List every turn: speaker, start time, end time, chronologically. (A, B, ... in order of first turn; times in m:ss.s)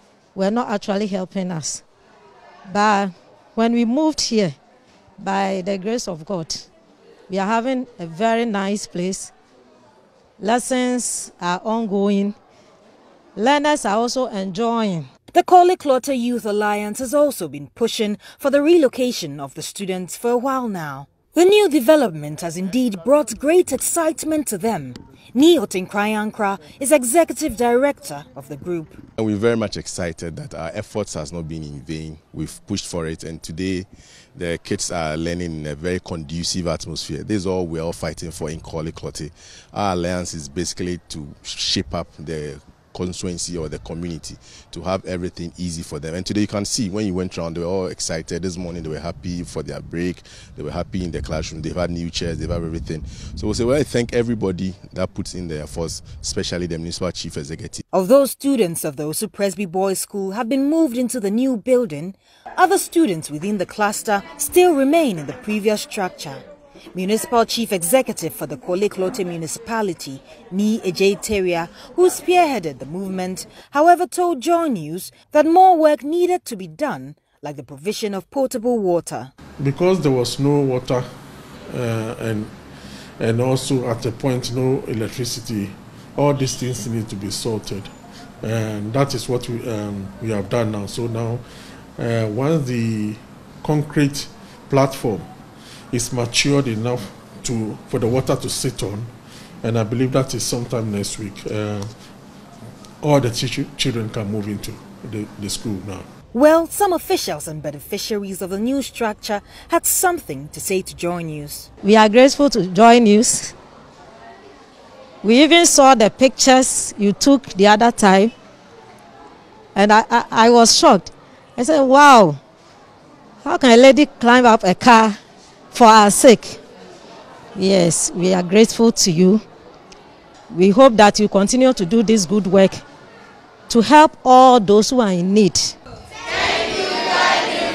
0:00.3-0:01.8 A
0:02.7-0:04.5 A
0:05.2-0:06.7 A
0:07.3-0:09.3 A
0:10.4-0:12.4 A
0:13.4-0:15.1 A
0:15.3-0:29.0 B
0:29.2-0:57.8 C
0:57.9-1:19.3 B
1:19.6-1:21.1 D
1:21.7-1:22.5 D
1:23.2-1:31.4 D
1:32.0-1:35.3 D
1:35.9-1:41.9 D
1:43.0-1:46.1 D
1:46.3-1:51.7 B
1:51.8-1:53.5 A
1:55.2-1:58.3 A
1:59.7-2:02.4 A
2:03.4-2:05.2 A
2:05.7-2:06.6 A
2:07.5-2:09.4 A
2:10.5-2:12.8 A
2:13.7-2:15.8 A